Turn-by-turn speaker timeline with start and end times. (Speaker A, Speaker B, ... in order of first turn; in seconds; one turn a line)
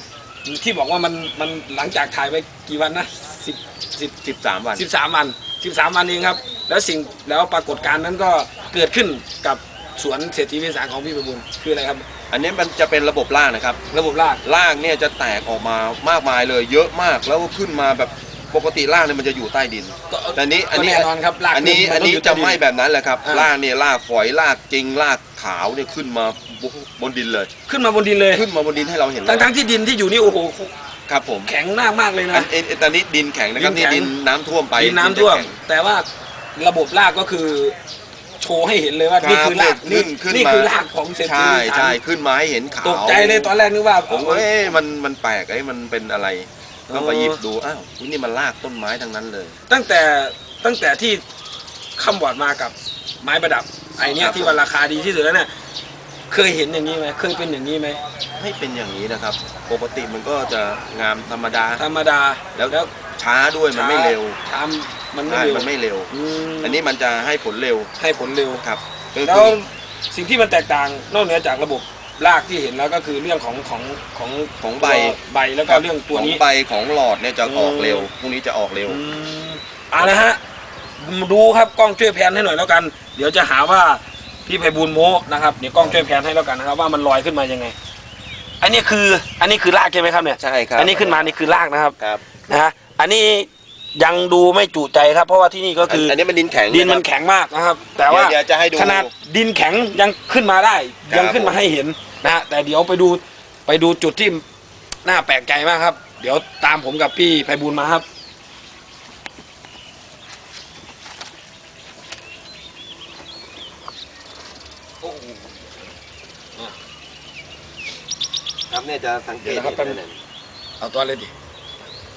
Speaker A: 0.4-4.2
Speaker B: 4.2-4.8
Speaker A: 4.7-12.0
Speaker B: 12.3-13.8
Speaker A: 13.9-14.4
Speaker B: 14.4-27.5
Speaker A: 20.1-22.6
Speaker A: 23.2-23.5
Speaker A: 27.7-28.4
Speaker B: 28.3-29.5
Speaker A: 29.2-30.7
Speaker B: 31.1-31.5
Speaker A: 31.4-32.5
Speaker B: 32.3-35.6
Speaker A: 33.6-34.1
Speaker A: 34.8-37.7
Speaker A: 38.4-42.0
Speaker B: 39.2-43.5
Speaker A: 42.8-44.5
Speaker B: 44.1-49.6
Speaker A: 46.9-47.4
Speaker A: 49.7-51.2
Speaker A: 52.0-55.5
Speaker B: 54.0-54.6
Speaker A: 56.3-58.0
Speaker B: 58.4-61.8
Speaker A: 61.8-62.9
Speaker B: 62.5-64.4
Speaker A: 63.7-66.8
Speaker B: 65.3-67.9
Speaker A: 68.0-68.6
Speaker B: 68.6-69.6
Speaker A: 69.2-76.4
Speaker B: 74.6-79.0
Speaker A: 77.4-78.1
Speaker A: 78.9-80.4
Speaker B: 80.0-80.3
Speaker A: 81.0-87.7
Speaker A: 88.6-92.0
Speaker B: 90.4-91.3
Speaker A: 92.5-96.2
Speaker B: 95.9-97.0
Speaker A: 96.7-104.4
Speaker B: 98.0-99.1
Speaker B: 101.1-101.6
Speaker A: 105.0-108.0
Speaker A: 115.0-115.5
Speaker B: 118.7-120.2
Speaker A: 119.4-120.0
Speaker A: 120.8-121.3